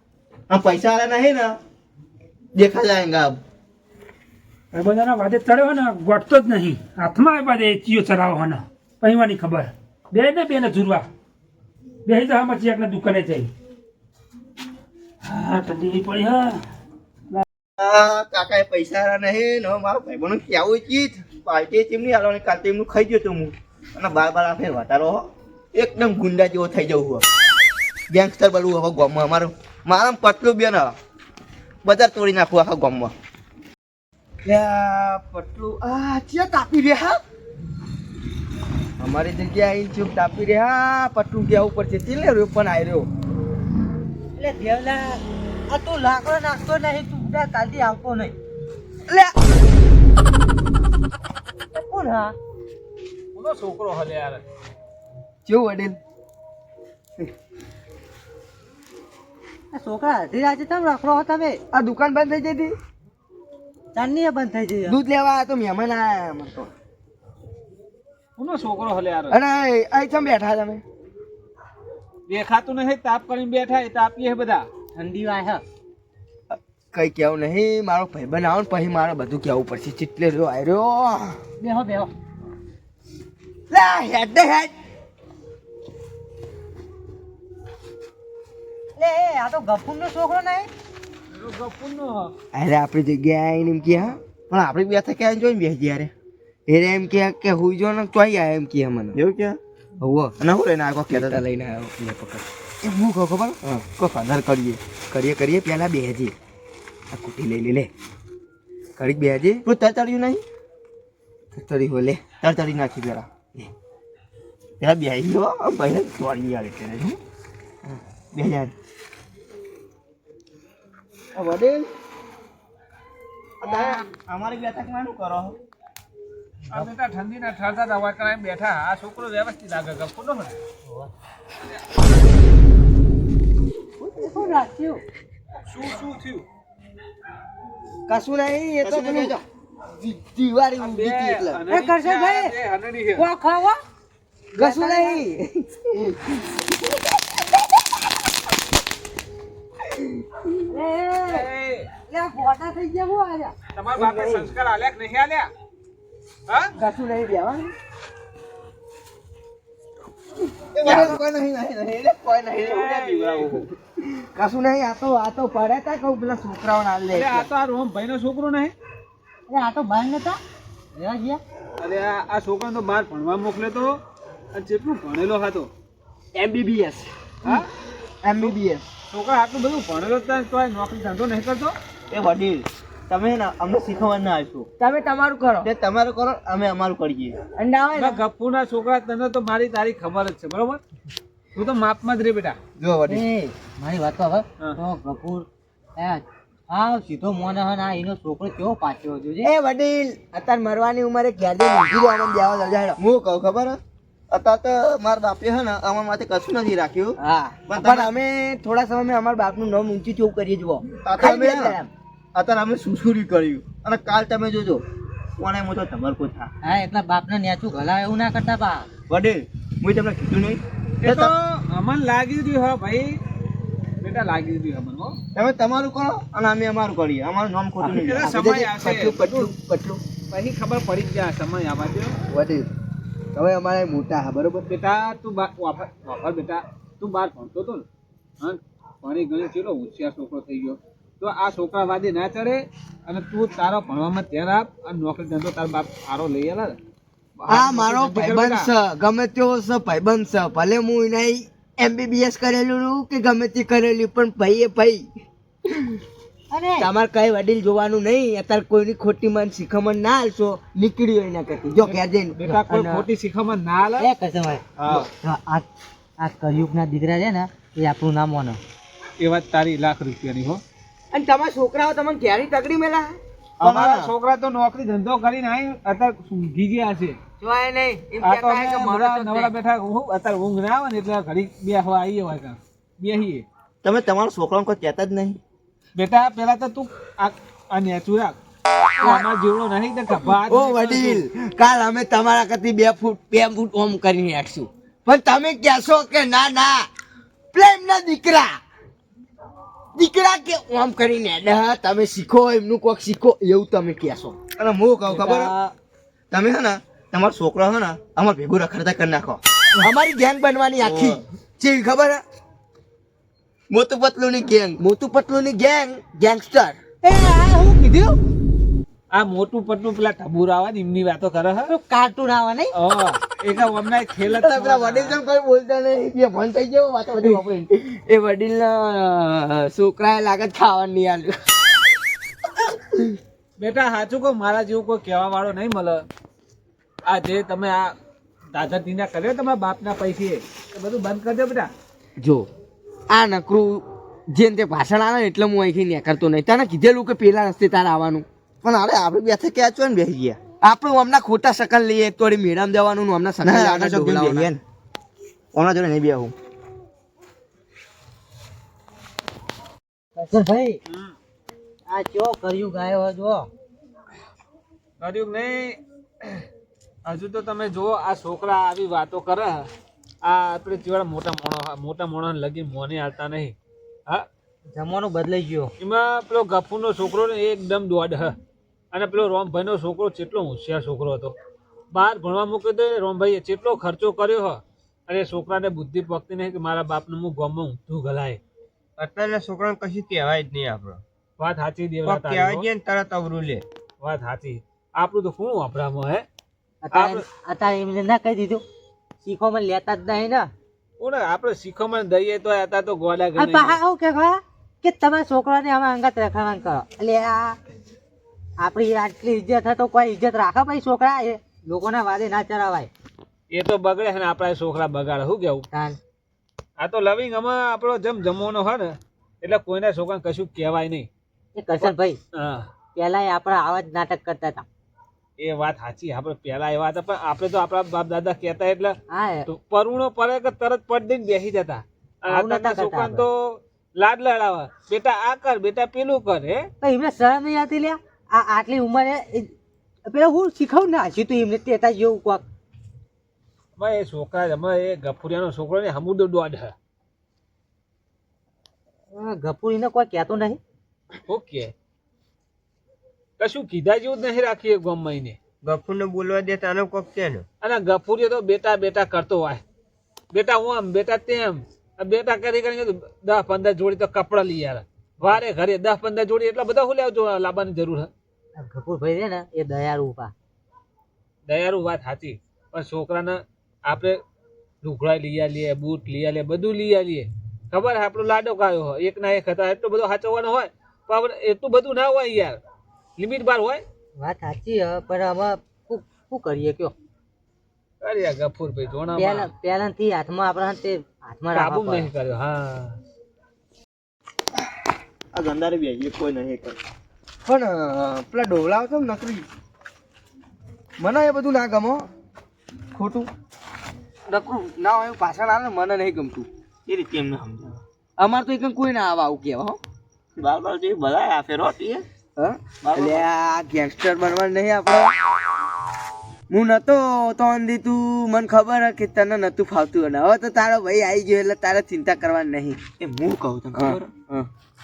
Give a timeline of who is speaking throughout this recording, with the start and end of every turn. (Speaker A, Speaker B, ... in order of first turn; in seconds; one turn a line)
Speaker A: 0.5-1.6
Speaker A: 2.5-3.4
Speaker B: 4.7-11.1
Speaker B: 12.1-13.5
Speaker B: 15.2-16.6
Speaker A: 17.8-27.2
Speaker A: 28.1-30.9
Speaker A: 31.9-33.1
Speaker C: 34.5-37.2
Speaker C: 39.0-43.1
Speaker D: 44.4-48.3
Speaker C: 49.1-49.3
Speaker D: 51.7-52.4
Speaker E: 53.4-54.4
Speaker C: 55.5-56.0
Speaker D: 59.7-61.6
Speaker C: 61.7-62.7
Speaker D: 63.9-65.0
Speaker C: 64.9-66.7
Speaker E: 68.4-69.4
Speaker C: 69.3-70.8
Speaker E: 72.3-74.7
Speaker D: 75.0-75.6
Speaker C: 76.5-81.4
Speaker D: 81.6-82.1
Speaker C: 83.7-84.7
Speaker D: 89.0-90.7
Speaker E: 91.3-92.3
Speaker C: 92.5-94.2
Speaker A: 94.5-96.1
Speaker C: 96.7-99.2
Speaker A: 99.1-99.6
Speaker C: 100.0-100.4
Speaker A: 100.4-101.4
Speaker C: 101.1-103.7
Speaker A: 103.8-104.8
Speaker C: 105.1-106.3
Speaker C: 107.1-107.9
Speaker C: 109.0-109.6
Speaker A: 109.6-110.4
Speaker C: 111.5-112.2
Speaker A: 112.4-113.3
Speaker A: 114.8-117.2
Speaker A: 118.3-118.7
Speaker C: 121.3-121.9
Speaker A: 123.6-125.6
Speaker E: 126.7-130.6
Speaker D: 134.0-135.0
Speaker E: 135.7-136.4
Speaker C: 138.1-139.4
Speaker A: 138.8-139.4
Speaker C: 140.0-141.6
Speaker E: 140.8-143.3
Speaker D: 141.7-142.6
Speaker D: 143.2-143.8
Speaker D: 144.6-145.2
Speaker C: 144.6-146.6
Speaker D: 150.7-151.5
Speaker E: 151.3-151.9
Speaker D: 152.1-153.6
Speaker E: 153.8-155.5
Speaker C: 154.0-154.5
Speaker C: 156.8-157.7
Speaker A: 160.8-161.3
Speaker C: 160.8-162.9
Speaker E: 162.6-163.7
Speaker A: 162.7-163.7
Speaker C: 164.0-167.5
Speaker E: 167.1-168.7
Speaker D: 169.5-170.4
Speaker D: 170.9-171.4
Speaker E: 171.8-174.0
Speaker E: 174.5-175.7
Speaker C: 176.3-177.1
Speaker C: 178.2-178.8
Speaker E: 179.1-181.8
Speaker A: 182.1-184.7
Speaker C: 184.8-185.7
Speaker A: 185.6-187.4
Speaker C: 187.6-188.2
Speaker E: 187.9-190.8
Speaker E: 191.6-192.6
Speaker C: 192.8-193.2
Speaker D: 193.1-199.5
Speaker C: 199.4-203.0
Speaker A: 203.0-203.8
Speaker A: 204.3-207.2
Speaker C: 207.2-211.9
Speaker A: 207.7-208.1
Speaker A: 211.0-211.8
Speaker A: 212.3-214.8
Speaker A: 215.4-216.5
Speaker D: 216.6-218.9
Speaker A: 219.1-221.3
Speaker E: 221.0-223.2
Speaker E: 224.0-225.2
Speaker A: 225.3-228.4
Speaker C: 227.8-230.0
Speaker E: 227.9-229.5
Speaker E: 230.3-232.2
Speaker C: 232.3-232.7
Speaker C: 233.3-234.7
Speaker E: 234.7-237.8
Speaker E: 238.4-246.8
Speaker E: 247.4-248.7
Speaker C: 247.5-255.1
Speaker D: 256.5-256.9
Speaker C: 256.8-263.1
Speaker E: 261.8-264.1
Speaker D: 264.0-264.6
Speaker E: 264.8-265.1
Speaker D: 265.2-265.7
Speaker D: 266.2-268.6
Speaker E: 269.2-270.6
Speaker C: 271.1-273.2
Speaker A: 273.6-274.1
Speaker E: 273.6-277.2
Speaker C: 277.4-279.5
Speaker E: 278.2-283.4
Speaker A: 283.8-285.4
Speaker E: 285.9-288.4
Speaker E: 289.0-291.2
Speaker C: 290.4-296.9
Speaker C: 297.5-298.6
Speaker C: 300.0-304.4
Speaker A: 304.6-305.5
Speaker A: 306.3-309.4
Speaker C: 309.8-312.2
Speaker A: 310.8-311.2
Speaker A: 313.7-314.8
Speaker C: 314.8-316.8
Speaker D: 317.0-318.2
Speaker E: 319.1-321.7
Speaker D: 321.7-322.7
Speaker E: 322.7-325.2
Speaker C: 324.3-331.4
Speaker E: 333.6-336.1
Speaker E: 337.1-337.9
Speaker E: 338.5-341.7
Speaker C: 342.2-342.5
Speaker C: 343.1-348.2
Speaker A: 348.6-350.4
Speaker C: 350.6-354.5
Speaker A: 353.4-354.6
Speaker A: 355.5-356.3
Speaker D: 360.2-360.8
Speaker D: 361.9-363.5
Speaker E: 365.0-365.8
Speaker E: 367.1-369.7
Speaker E: 370.2-373.6
Speaker D: 374.7-375.7
Speaker E: 375.8-378.4
Speaker E: 378.9-381.4
Speaker E: 381.9-388.4
Speaker F: 389.0-391.0
Speaker E: 391.4-392.7
Speaker F: 392.1-393.6
Speaker E: 394.0-396.2
Speaker D: 396.8-398.6
Speaker E: 396.9-397.2
Speaker D: 399.2-400.5
Speaker E: 401.0-403.8
Speaker D: 403.4-407.6
Speaker D: 408.6-412.9
Speaker E: 413.5-415.6
Speaker D: 415.7-416.0
Speaker E: 416.8-421.1
Speaker D: 421.6-422.2
Speaker E: 421.8-422.7
Speaker D: 422.9-424.6
Speaker E: 425.4-436.7
Speaker D: 429.1-429.5
Speaker D: 432.3-433.3
Speaker D: 436.8-439.5
Speaker D: 440.1-442.4
Speaker E: 443.8-446.8
Speaker D: 449.1-450.6
Speaker E: 451.3-451.7
Speaker E: 453.4-455.4
Speaker F: 455.6-457.4
Speaker E: 457.6-459.6
Speaker E: 460.3-468.1
Speaker D: 468.6-470.3
Speaker E: 471.5-474.2
Speaker E: 474.8-482.6
Speaker E: 483.2-483.9
Speaker D: 484.2-486.9
Speaker E: 488.0-489.5
Speaker D: 489.1-492.1
Speaker E: 491.5-493.0
Speaker A: 495.3-496.8
Speaker C: 497.5-499.5
Speaker C: 501.0-502.1
Speaker C: 502.9-503.3
Speaker C: 504.3-506.5
Speaker A: 506.9-507.8
Speaker C: 508.2-509.8
Speaker A: 510.4-512.0
Speaker C: 512.4-515.1
Speaker A: 512.8-513.3
Speaker C: 516.5-522.8
Speaker A: 523.0-524.1
Speaker C: 523.7-524.5